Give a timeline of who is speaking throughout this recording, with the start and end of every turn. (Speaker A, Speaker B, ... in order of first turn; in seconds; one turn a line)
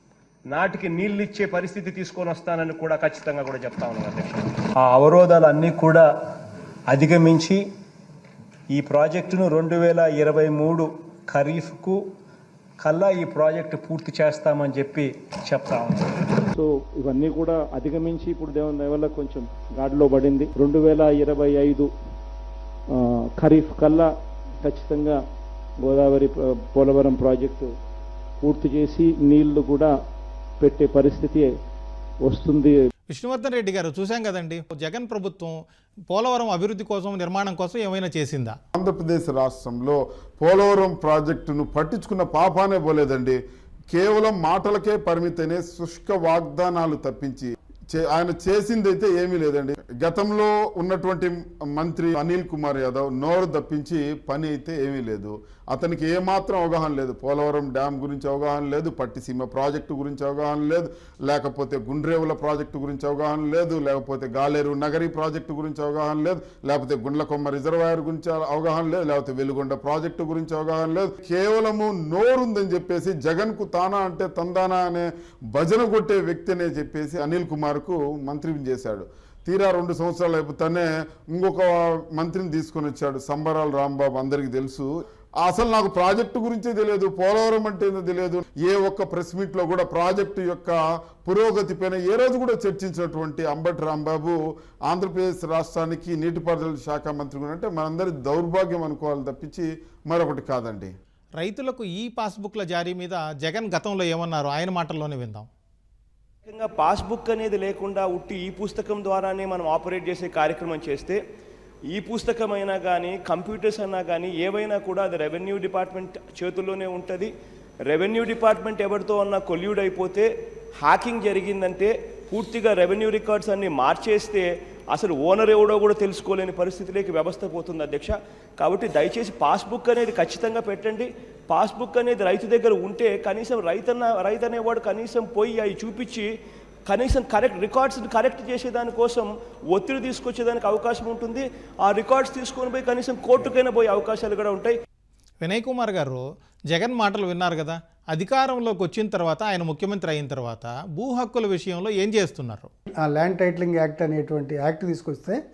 Speaker A: 0.5-6.1
Speaker A: 6.9-7.7
Speaker A: 8.7-12.1
Speaker A: 12.8-16.2
Speaker B: 16.5-21.9
Speaker B: 22.9-25.2
Speaker B: 25.8-27.7
Speaker B: 28.4-29.9
Speaker B: 30.6-31.5
Speaker B: 32.2-32.8
Speaker C: 33.1-38.6
Speaker D: 38.7-43.4
Speaker D: 43.9-84.9
Speaker D: 85.4-94.4
Speaker D: 94.9-100.9
Speaker C: 101.4-105.5
Speaker E: 106.5-111.2
Speaker E: 111.9-117.3
Speaker E: 117.9-136.3
Speaker E: 136.9-144.8
Speaker C: 145.4-152.7
Speaker F: 153.0-155.4